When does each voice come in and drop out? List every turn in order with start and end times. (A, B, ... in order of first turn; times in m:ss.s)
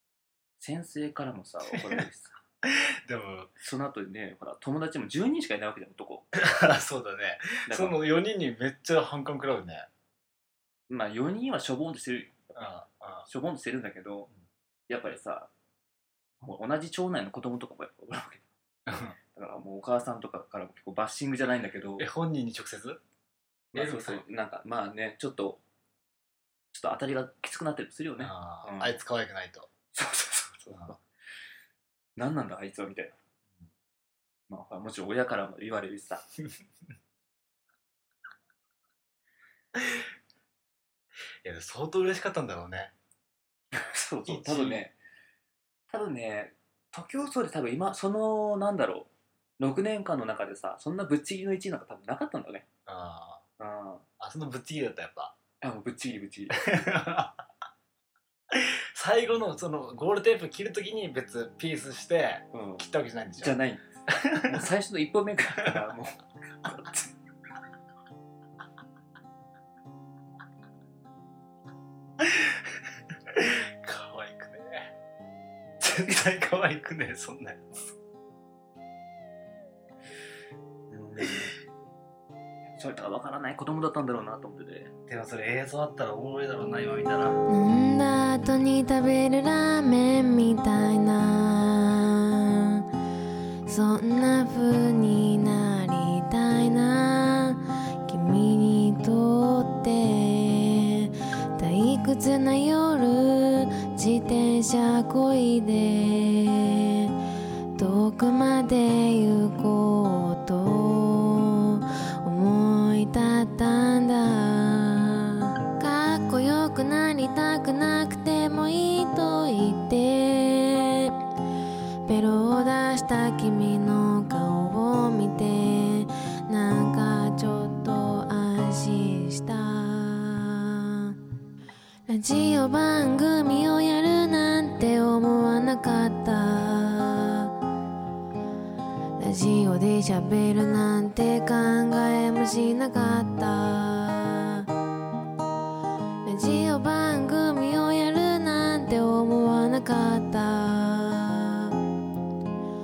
0:00.6-0:02.4 A
0:01.7-0:02.0 B
0:02.6-0:03.5 B
0:03.6-0:06.2 A
0:06.3-0:09.9 B
0:07.6-0:08.0 A
0:10.9-0:12.7 A
0:12.6-0:13.3 B
0:13.2-0:14.3 A
0:14.9-0:15.5 A
0:16.4-0:18.4 A
0:18.8-0:19.2 B
0:19.3-0:22.1 A
0:22.0-0:23.0 B
0:23.7-0:25.6 A
0:23.7-0:24.2 B
0:26.7-0:29.0 A
0:28.2-0:29.7 B
0:29.9-0:31.0 A
0:30.7-0:31.0 B
0:32.2-0:33.2 A
0:34.5-0:36.2 A
0:39.8-0:40.0 B
0:41.4-0:42.9 B
0:43.7-0:44.9 A
0:44.3-0:44.8 B
0:45.9-0:52.7 A
0:52.8-0:53.4 B
0:53.6-0:54.0 A
0:54.2-0:55.3 B
0:55.6-0:56.6 A
0:56.5-0:57.4 B
0:58.5-1:04.6 B
1:02.5-1:02.8 A
1:03.4-1:07.1 A
1:12.2-1:14.9 B
1:15.8-1:17.9 B
1:20.9-1:21.6 A
1:22.7-1:24.9 A
1:25.1-1:27.4 B
1:27.5-1:32.8 C
1:33.6-1:47.1 C
1:47.8-2:01.1 C
2:02.0-2:11.1 C
2:12.1-2:17.5 C
2:19.2-2:24.6 C
2:26.2-2:31.7 C